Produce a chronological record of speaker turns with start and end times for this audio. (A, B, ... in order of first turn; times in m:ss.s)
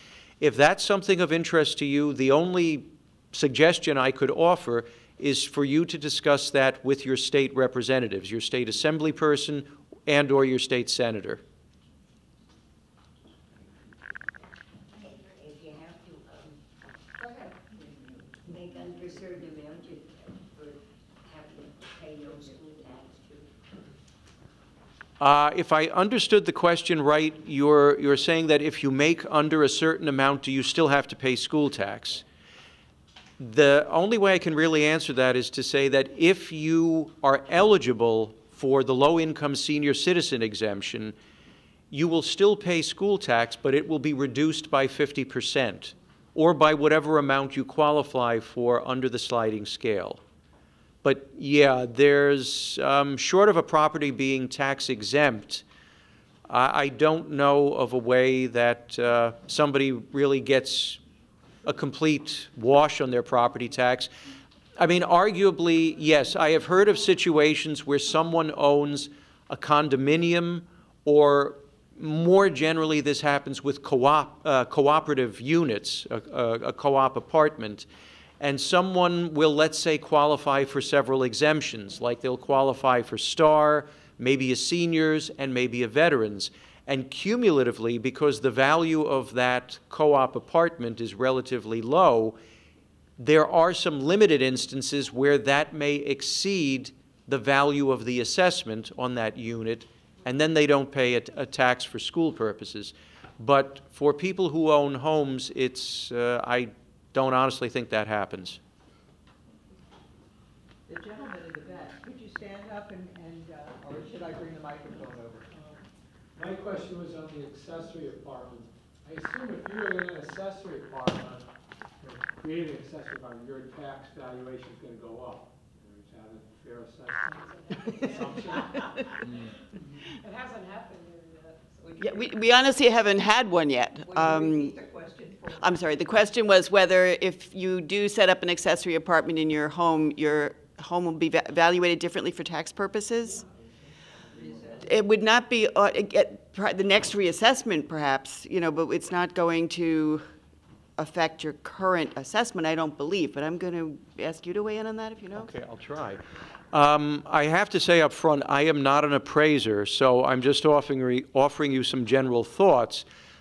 0:00.4-0:11.4 A
0:15.0-0:16.6 B
0:17.2-0:20.8 B
0:21.3-0:23.5 B
0:25.2-0:32.2 A
0:33.4-0:41.1 A
0:41.9-0:50.2 A
0:51.0-0:55.6 A
0:56.5-1:01.0 A
1:01.6-1:04.1 A
1:04.8-1:17.9 A
1:18.4-1:32.4 A
1:33.2-1:48.6 A
1:50.9-1:55.6 C
1:56.4-2:01.4 D
2:02.0-2:09.4 D
2:12.0-2:14.8 E
2:14.1-2:15.6 C
2:15.6-2:23.4 E
2:24.3-2:24.8 C
2:24.8-2:30.3 E
2:31.0-2:35.5 E
2:35.4-2:43.0 A